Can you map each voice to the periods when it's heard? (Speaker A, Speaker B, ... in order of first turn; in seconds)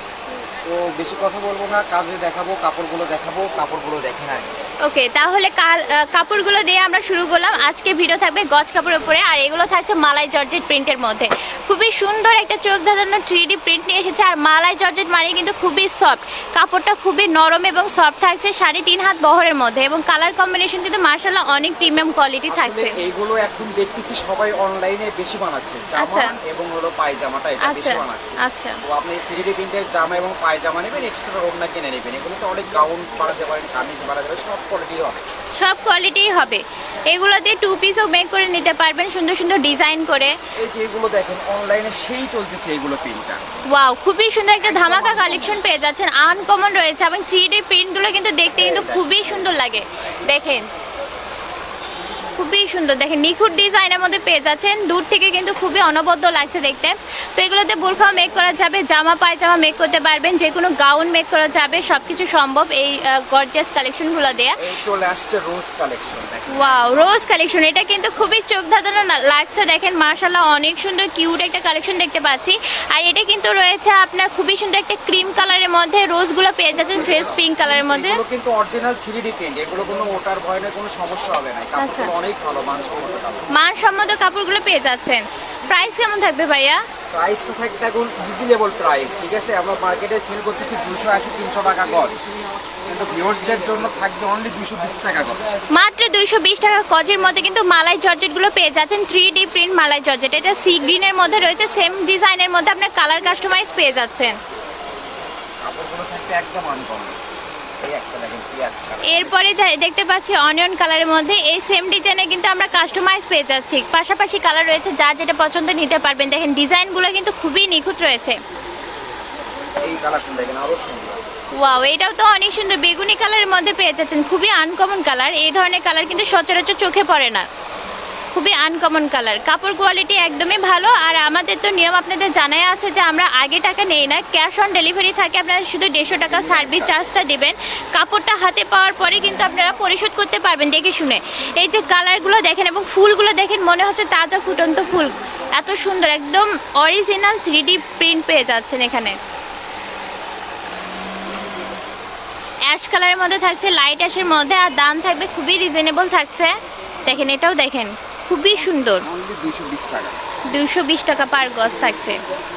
Speaker A: 0.6-4.6, 22.5-35.2, 40.6-43.4, 44.6-45.6, 48.5-49.5, 64.6-67.2, 76.7-83.5, 87.1-92.2, 92.9-95.6, 105.6-107.2, 107.8-109.4, 119.8-121.2, 136.2-137.1, 158.6-160.3
Speaker B: 4.8-22.9, 26.0-26.3, 27.6-28.8, 35.6-40.3, 43.7-50.7, 52.4-64.5, 66.5-78.2, 81.8-82.1, 83.5-86.8, 95.7-104.3, 109.0-118.4, 121.6-127.4, 128.3-149.2, 152.7-156.5, 157.1-159.0, 160.5-162.2